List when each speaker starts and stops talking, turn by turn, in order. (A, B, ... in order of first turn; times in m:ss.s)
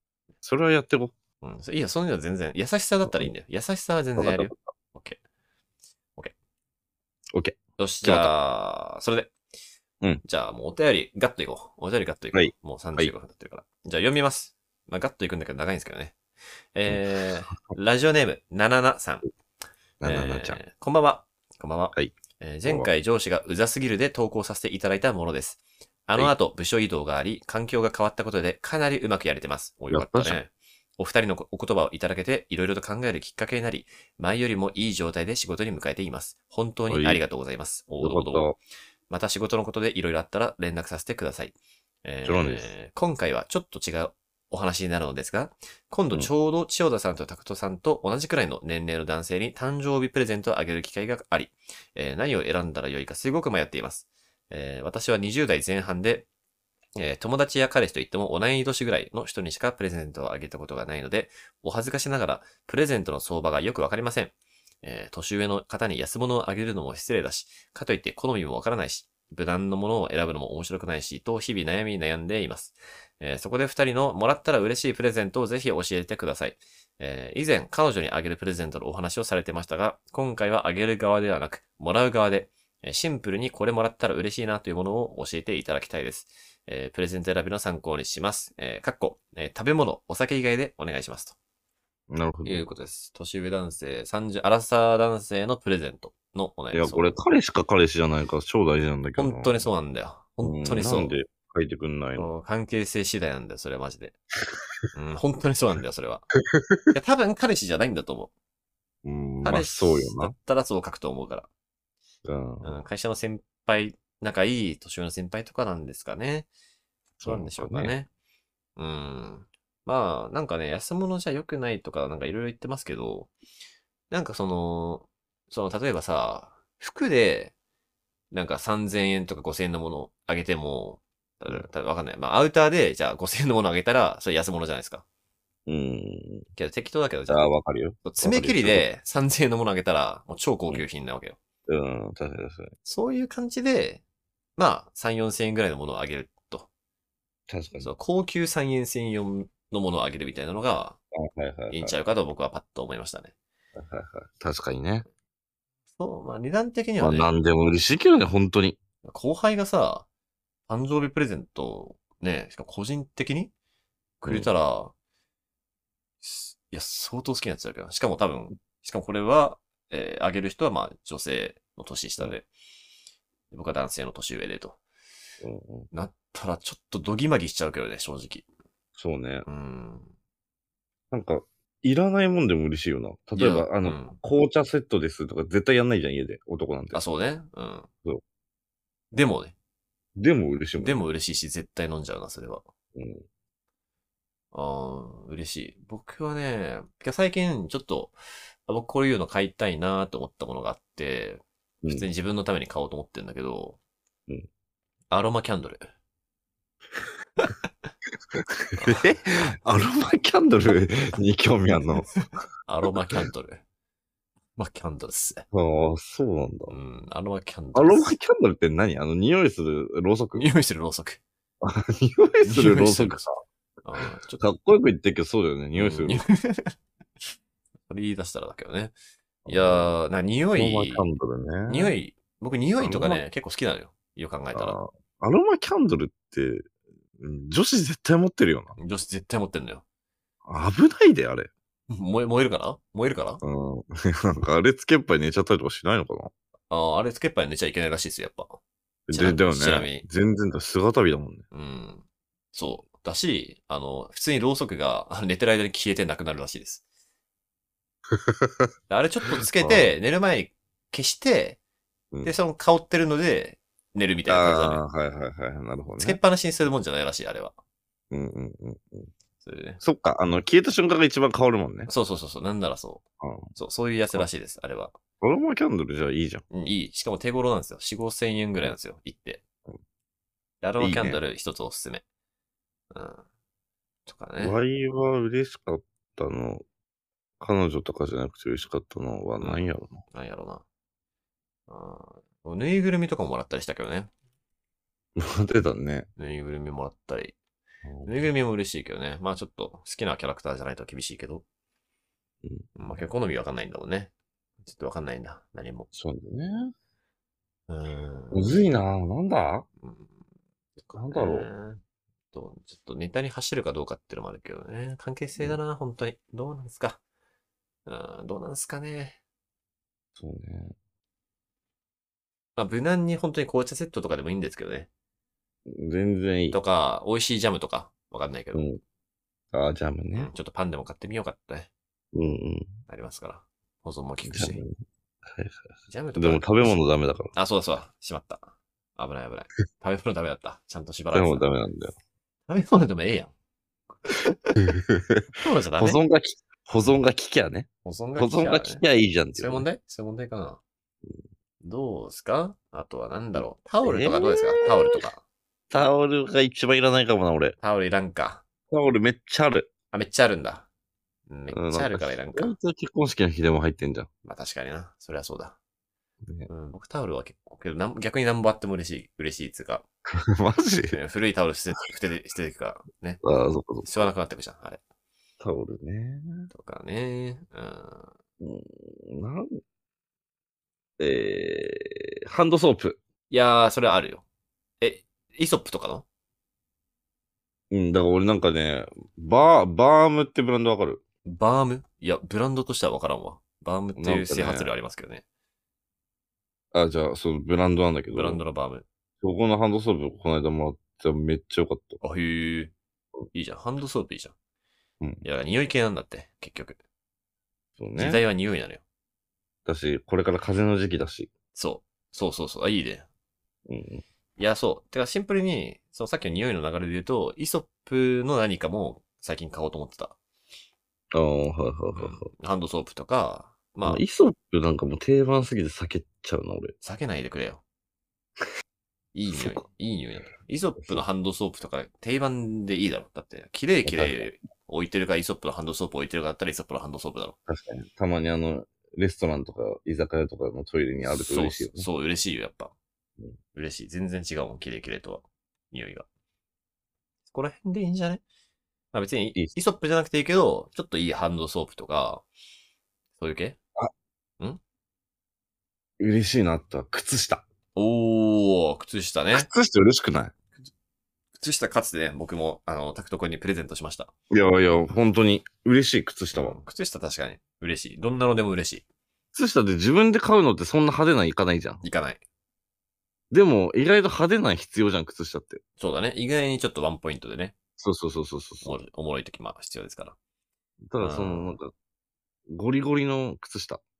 0:00.4-0:01.1 A
0:01.4-0:05.2 B
0:03.1-0:03.3 A
0:04.2-0:04.6 A
0:07.3-0:08.3 A
0:07.8-0:09.3 B
0:10.2-0:16.2 B
0:12.3-0:13.1 A
0:16.7-0:19.3 B
0:20.0-0:20.6 A
0:20.0-0:38.5 B
0:29.9-0:30.4 A
0:36.9-0:37.2 A
0:38.0-0:38.6 A
0:39.1-0:56.3 B
0:42.2-0:42.7 A
0:57.0-1:31.4 B
1:32.1-1:32.6 A
1:32.4-1:37.2 B
1:36.7-1:39.6 A
1:39.2-1:41.1 B
1:40.4-1:42.3 A
1:42.2-1:44.2 B
1:44.9-1:46.3 B
1:46.5-1:46.8 A
1:46.9-1:48.3 B
1:49.0-1:50.3 A
1:49.4-1:51.5 B
1:52.2-1:52.8 A
1:52.6-1:56.5 B
1:57.2-1:57.9 A
1:57.2-1:58.1 B
1:58.8-2:03.3 B
2:04.1-2:07.5 B
2:08.3-2:15.0 B
2:15.7-2:16.4 A
2:16.6-2:17.5 B
2:17.3-2:18.8 A
2:18.0-2:21.4 B
2:21.7-2:22.7 A
2:22.8-2:24.0 B
2:24.6-2:26.7 B
2:27.5-2:27.9 A
2:27.8-2:31.0 B
2:31.2-2:32.0 A
2:31.7-2:33.3 B
2:33.8-2:35.1 A
2:36.0-2:37.3 B
2:37.0-2:38.8 A
2:39.0-2:40.1 B
2:40.7-2:43.5 B
2:44.2-2:44.9 B
2:46.2-2:52.5 B
2:53.5-2:54.8 B
2:55.4-2:55.9 A
2:55.9-2:58.4 B
2:59.0-2:59.5 A
2:59.5-3:00.1 B
3:01.1-3:07.0 A
3:03.4-3:04.2 B
3:06.9-3:07.9 B
3:09.1-3:09.6 B
3:10.2-3:11.0 A
3:10.8-3:12.7 B
3:13.0-3:13.2 A
3:14.5-3:23.8 B
3:21.8-3:22.1 A
3:25.1-3:25.8 B
3:28.3-3:32.1 A
3:28.8-3:29.4 B
3:32.2-3:33.6 B
3:32.9-3:33.2 A
3:34.6-3:35.4 B
3:35.5-3:36.8 A
3:36.7-3:38.1 B
3:37.8-3:40.5 A
3:40.4-3:41.2 B
3:41.6-3:43.3 A
3:42.4-3:43.3 B
3:43.8-3:44.4 B
3:44.4-3:46.2 A
3:45.8-3:46.8 B
3:47.9-3:48.9 B
3:49.5-3:50.0 A
3:49.5-3:51.0 B
3:50.6-3:52.0 A
3:51.7-3:54.8 B
3:52.8-3:53.2 A
3:54.5-3:58.8 A
3:58.8-3:59.8 B
4:00.5-4:01.5 A
4:01.9-4:03.4 B
4:03.4-4:06.3 A
4:06.7-4:08.6 B
4:09.1-4:11.4 A
4:09.1-4:10.0 B
4:11.5-4:16.8 B
4:18.1-4:18.7 A
4:18.9-4:21.6 B
4:19.4-4:19.9 A
4:22.1-4:22.4 A
4:22.2-4:24.8 B
4:24.3-4:26.2 A
4:26.0-4:27.5 B
4:28.1-4:29.1 A
4:29.4-4:29.8 B
4:29.8-4:31.9 A
4:31.9-4:33.0 B
4:33.2-4:33.5 A
4:33.6-4:35.0 B
4:35.2-4:36.4 A
4:36.5-4:39.4 B
4:40.6-4:42.0 B
4:40.8-4:41.2 A
4:42.9-4:43.2 B
4:44.1-4:44.6 B
4:44.4-4:46.6 A
4:47.4-4:50.0 A
4:49.4-4:50.6 B
4:51.7-4:54.1 B
4:55.2-4:56.1 A
4:56.2-4:57.4 B
4:57.8-4:58.3 A
4:58.1-5:01.4 B
5:02.8-5:04.1 B
5:04.7-5:05.9 B
5:05.9-5:06.7 A
5:07.7-5:08.6 B
5:08.3-5:09.7 A
5:09.8-5:10.1 B
5:10.9-5:11.5 A
5:11.1-5:11.8 B
5:12.3-5:17.0 B
5:17.9-5:19.2 B
5:20.2-5:20.8 A
5:22.6-5:24.9 B
5:25.7-5:26.6 A
5:26.5-5:28.7 B
5:28.5-5:28.8 A
5:29.5-5:30.3 A
5:30.1-5:31.7 B
5:32.1-5:32.7 A
5:32.9-5:34.6 B
5:34.3-5:34.7 A
5:35.3-5:37.3 A
5:35.9-5:36.8 B
5:37.3-5:41.5 B
5:41.1-5:42.0 A
5:42.5-5:43.3 B
5:44.0-5:44.6 B
5:44.7-5:45.2 A
5:45.4-5:46.0 B
5:45.8-5:49.6 A
5:47.8-5:48.8 B
5:49.4-5:50.6 B
5:51.6-5:55.2 B
5:53.8-5:55.0 A
5:55.7-5:57.6 A
5:57.6-5:58.4 B
5:58.7-5:59.7 A
5:59.9-6:00.7 B
6:01.3-6:02.6 B
6:01.5-6:04.1 A
6:04.2-6:05.6 B
6:06.5-6:09.8 B
6:10.1-6:11.0 A
6:10.9-6:13.2 B
6:13.2-6:14.1 A
6:13.8-6:14.8 B
6:15.4-6:16.5 A
6:16.5-6:18.1 B
6:18.4-6:19.6 A
6:21.0-6:23.0 A
6:23.3-6:24.2 B
6:24.8-6:26.0 B
6:27.7-6:31.0 A
6:31.3-6:35.2 B
6:34.0-6:34.7 A
6:36.7-6:38.4 A
6:38.1-6:38.9 B
6:39.2-6:42.0 A
6:42.0-6:42.7 B
6:43.3-6:44.3 B
6:45.2-6:46.8 B
6:47.8-6:48.2 A
6:48.0-6:48.8 B
6:49.7-6:51.3 A
6:51.5-6:53.1 B
6:53.7-6:54.0 A
6:54.4-7:00.2 B
7:01.1-7:02.3 A
7:02.0-7:04.0 B
7:03.8-7:06.7 A
7:06.8-7:07.6 B
7:09.1-7:17.4 B
7:09.3-7:09.6 A
7:13.8-7:14.2 A
7:17.5-7:21.9 A
7:21.0-7:22.7 B
7:23.5-7:26.1 B
7:27.3-7:28.2 B
7:28.9-7:32.2 B
7:33.2-7:33.6 B
7:36.0-7:37.4 A
7:37.8-7:39.5 B
7:39.3-7:40.3 A
7:41.4-7:44.1 B
7:44.3-7:46.6 A
7:46.3-7:48.8 B
7:49.4-7:51.8 A
7:51.8-7:52.2 B
7:53.3-7:55.6 A
7:55.8-7:57.5 B
7:57.8-7:58.8 A
7:58.6-8:00.2 B
8:00.9-8:01.7 A
8:01.0-8:01.6 B
8:02.5-8:03.8 A